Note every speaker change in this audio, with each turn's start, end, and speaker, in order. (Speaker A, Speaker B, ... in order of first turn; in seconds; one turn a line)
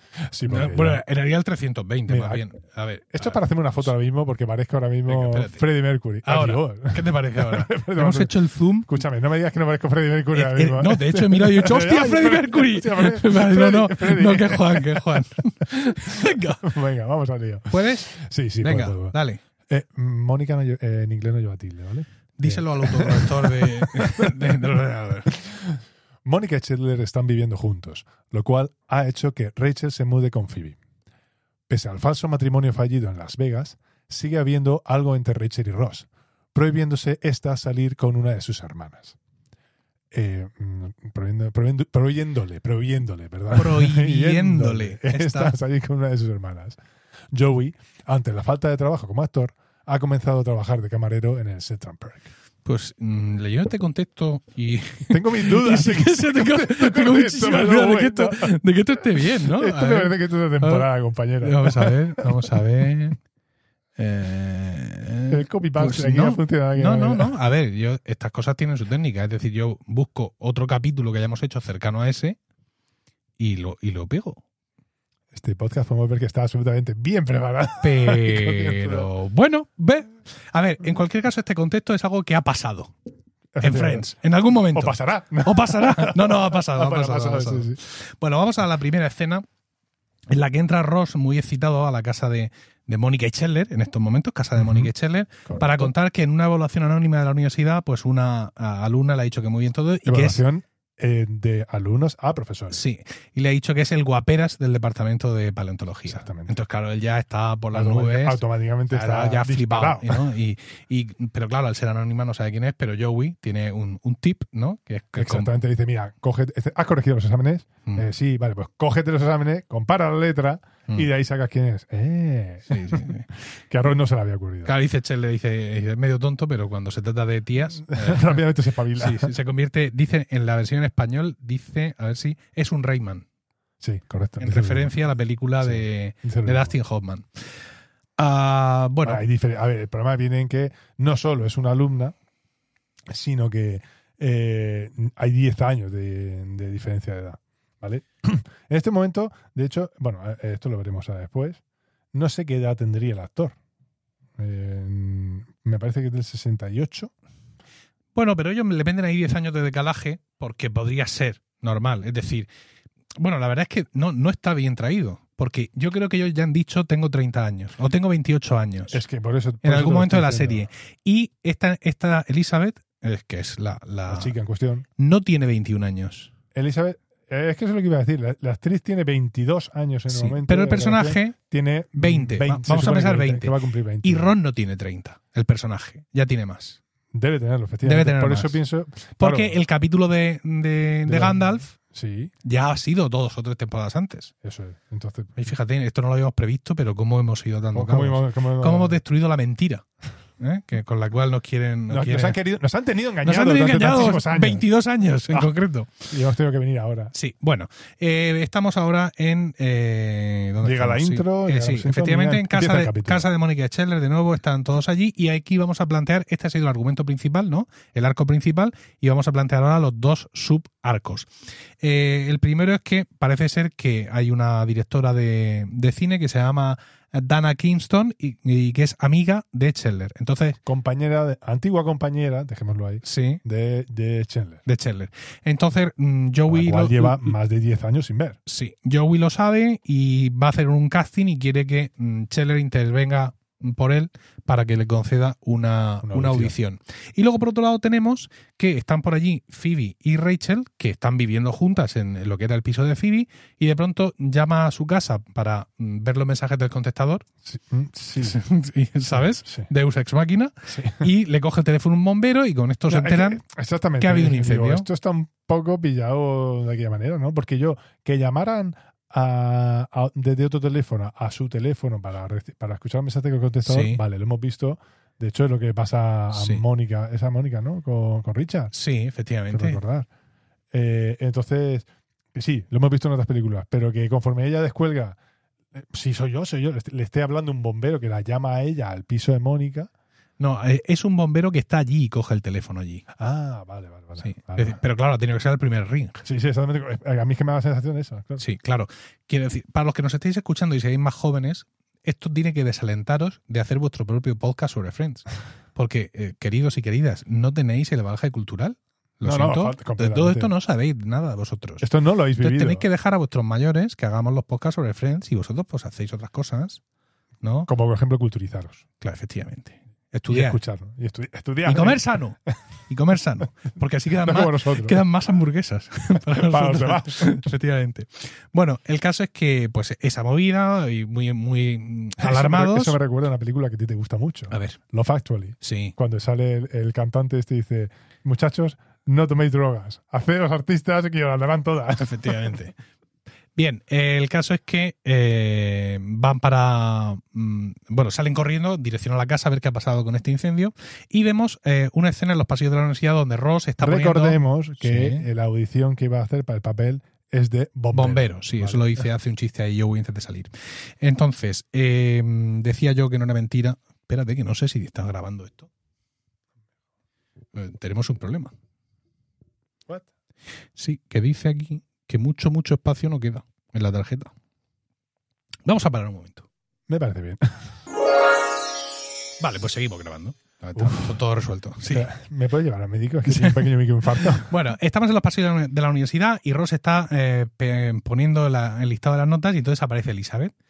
Speaker A: 0.2-1.0
Speaker B: 0.5-3.9
Speaker A: 2.1-2.4
Speaker A: 3.1-19.2
Speaker B: 5.1-5.7
Speaker B: 6.2-9.0
Speaker B: 10.3-16.7
Speaker B: 17.7-19.4
Speaker A: 19.7-24.7
Speaker B: 22.4-25.3
Speaker A: 25.3-30.8
Speaker A: 31.7-39.2
Speaker A: 40.1-46.8
Speaker B: 43.5-45.6
Speaker A: 47.3-52.3
Speaker B: 52.6-60.9
Speaker A: 55.1-58.6
Speaker A: 59.4-62.3
Speaker B: 61.4-63.2
Speaker B: 64.0-72.4
Speaker A: 65.3-67.3
Speaker B: 73.4-74.4
Speaker A: 75.3-79.1
Speaker B: 77.8-82.9
Speaker A: 83.5-84.1
Speaker B: 83.6-89.5
Speaker A: 84.7-87.8
Speaker B: 90.3-100.4
Speaker A: 94.6-94.9
Speaker A: 95.5-95.9
Speaker A: 100.0-102.8
Speaker B: 102.7-115.5
Speaker A: 106.1-106.5
Speaker A: 107.7-110.2
Speaker A: 115.2-124.7
Speaker B: 122.7-123.3
Speaker B: 124.7-128.4
Speaker A: 127.9-129.3
Speaker B: 129.0-133.2
Speaker A: 133.8-134.9
Speaker B: 134.4-137.6
Speaker A: 135.6-136.7
Speaker B: 138.2-139.2
Speaker A: 139.0-142.2
Speaker A: 143.1-151.6
Speaker A: 152.1-153.6
Speaker A: 154.4-157.1
Speaker B: 158.2-162.5
Speaker B: 163.2-169.0
Speaker A: 168.9-170.7
Speaker B: 169.6-174.3
Speaker A: 174.1-174.9
Speaker B: 175.0-176.3
Speaker A: 176.5-184.3
Speaker B: 180.1-181.4
Speaker B: 182.0-186.8
Speaker A: 187.1-189.6
Speaker B: 187.8-188.6
Speaker B: 189.2-191.7
Speaker A: 191.1-192.3
Speaker B: 192.4-194.3
Speaker A: 194.4-195.4
Speaker B: 195.4-199.9
Speaker A: 197.7-199.0
Speaker B: 200.4-202.4
Speaker A: 201.9-204.7
Speaker B: 203.2-206.1
Speaker A: 206.1-207.1
Speaker B: 207.1-221.3
Speaker A: 210.6-213.3
Speaker B: 221.8-230.6
Speaker A: 230.6-234.6
Speaker B: 233.0-233.4
Speaker B: 234.7-237.3
Speaker A: 236.5-238.4
Speaker B: 238.5-257.3
Speaker A: 246.0-246.5
Speaker A: 257.4-258.4
Speaker B: 258.2-263.4
Speaker A: 260.7-261.1
Speaker A: 262.9-278.7
Speaker B: 264.0-264.9
Speaker B: 273.7-274.0
Speaker B: 276.3-276.6
Speaker B: 278.7-279.8
Speaker A: 279.5-280.1
Speaker A: 280.7-285.2
Speaker A: 285.7-289.9
Speaker B: 290.4-293.1
Speaker A: 293.2-294.8
Speaker B: 294.2-296.2
Speaker A: 296.2-298.4
Speaker B: 298.4-316.8
Speaker A: 309.2-310.5
Speaker A: 311.8-312.9
Speaker B: 317.4-317.7
Speaker A: 317.7-318.8
Speaker B: 319.0-320.6
Speaker A: 320.3-322.0
Speaker B: 321.6-333.0
Speaker A: 324.2-325.0
Speaker A: 326.3-327.4
Speaker A: 332.2-342.4
Speaker B: 334.5-334.8
Speaker B: 335.6-335.9
Speaker B: 342.0-342.8
Speaker B: 343.6-355.3
Speaker A: 353.8-359.0
Speaker B: 357.9-365.7
Speaker B: 367.6-368.5
Speaker B: 370.8-374.3
Speaker B: 375.7-376.5
Speaker A: 376.9-377.7
Speaker B: 379.4-382.1
Speaker A: 380.8-381.2
Speaker A: 381.9-384.5
Speaker B: 383.3-390.5